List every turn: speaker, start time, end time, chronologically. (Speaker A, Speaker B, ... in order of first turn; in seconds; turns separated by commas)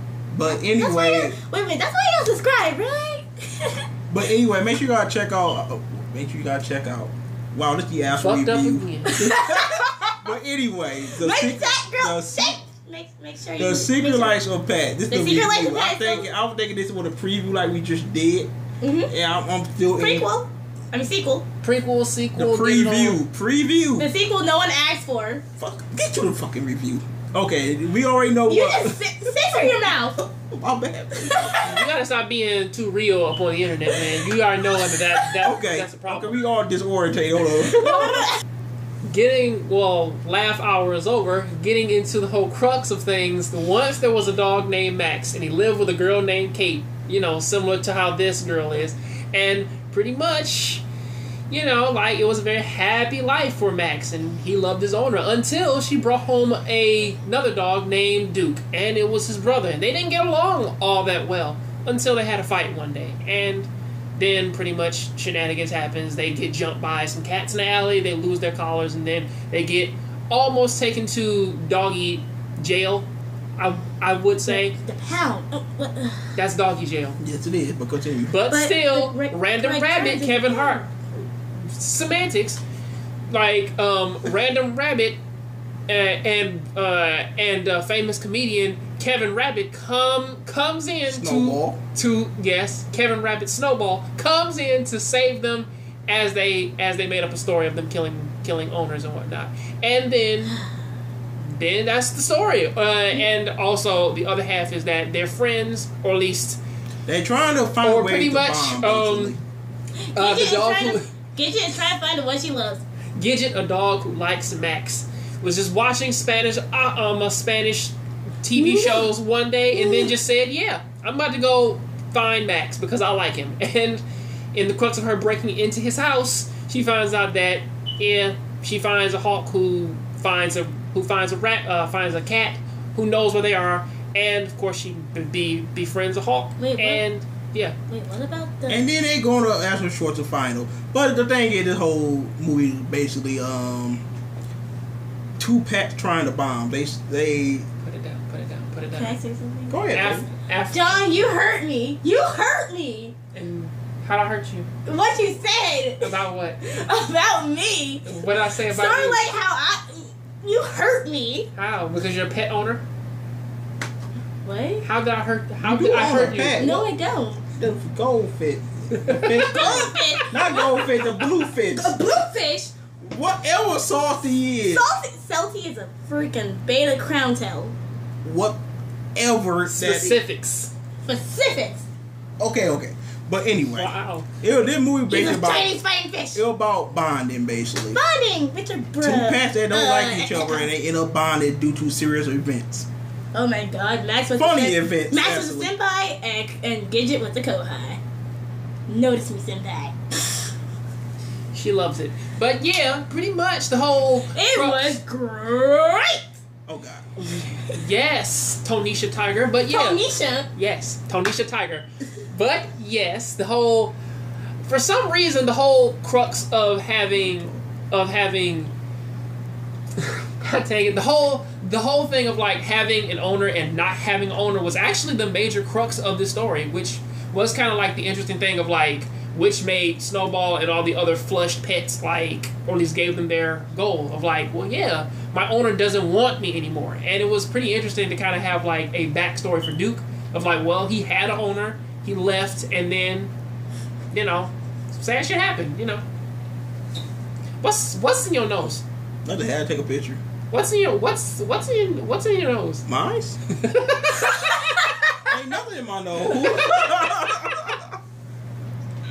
Speaker A: 0.3-1.4, Speaker B: 0.8-3.8, Speaker A: 4.1-12.6, Speaker C: 8.2-9.2, Speaker B: 9.1-10.2, Speaker B: 11.1-14.4, Speaker A: 13.6-18.5, Speaker B: 15.1-16.3, Speaker B: 18.8-19.1, Speaker A: 19.1-20.3, Speaker B: 20.0-21.5, Speaker C: 21.6-23.2, Speaker A: 22.4-24.1, Speaker B: 24.0-25.4, Speaker A: 25.6-31.7, Speaker B: 28.5-30.2, Speaker B: 31.2-31.8, Speaker C: 31.6-36.4, Speaker B: 34.8-35.4, Speaker A: 35.4-38.3, Speaker C: 37.8-38.2, Speaker C: 39.0-50.8, Speaker C: 51.5-74.7, Speaker B: 74.5-76.4, Speaker C: 76.4-77.2, Speaker A: 77.2-78.3, Speaker C: 78.3-80.9, Speaker B: 78.5-80.9, Speaker C: 81.7-82.6, Speaker C: 83.3-85.2, Speaker C: 85.9-100.6, Speaker A: 91.1-91.8, Speaker C: 101.4-106.6, Speaker A: 107.1-109.4, Speaker C: 107.8-109.4, Speaker B: 110.1-112.8, Speaker C: 110.2-111.1, Speaker C: 113.2-124.0, Speaker B: 118.6-119.1, Speaker B: 119.7-120.1, Speaker C: 124.5-137.8, Speaker B: 136.6-137.0, Speaker B: 137.9-138.9, Speaker A: 138.7-144.0, Speaker A: 145.4-147.7, Speaker C: 147.8-149.2, Speaker B: 148.9-149.8, Speaker A: 149.7-150.3, Speaker C: 149.9-151.3, Speaker B: 150.7-153.2, Speaker C: 153.3-154.7, Speaker B: 154.9-161.5, Speaker C: 156.0-156.6, Speaker C: 158.1-159.3, Speaker C: 161.6-162.8, Speaker B: 164.4-164.9, Speaker C: 164.8-166.7, Speaker A: 165.6-166.9, Speaker B: 166.6-167.4, Speaker A: 167.6-171.9, Speaker C: 168.9-169.9, Speaker B: 169.5-172.7, Speaker A: 173.0-174.9, Speaker B: 174.7-177.8, Speaker A: 178.2-178.6, Speaker A: 179.2-180.2, Speaker C: 179.7-180.7, Speaker B: 181.0-181.9, Speaker A: 182.4-185.7, Speaker C: 183.7-184.3, Speaker B: 185.1-186.4, Speaker A: 186.3-188.0, Speaker B: 187.9-190.7, Speaker A: 189.0-192.9, Speaker B: 193.3-198.0, Speaker A: 194.4-195.7, Speaker B: 198.9-200.5, Speaker C: 201.5-205.0, Speaker B: 204.3-206.3, Speaker A: 206.7-207.1, Speaker C: 207.2-210.0, Speaker B: 209.7-210.5, Speaker C: 210.5-213.9, Speaker C: 214.7-218.7, Speaker A: 217.2-217.6, Speaker C: 220.0-243.3, Speaker C: 244.1-246.0, Speaker C: 247.6-248.8, Speaker A: 249.3-250.2, Speaker C: 250.5-252.8, Speaker A: 252.9-253.4, Speaker C: 253.6-255.3, Speaker A: 255.3-257.9, Speaker C: 256.3-257.6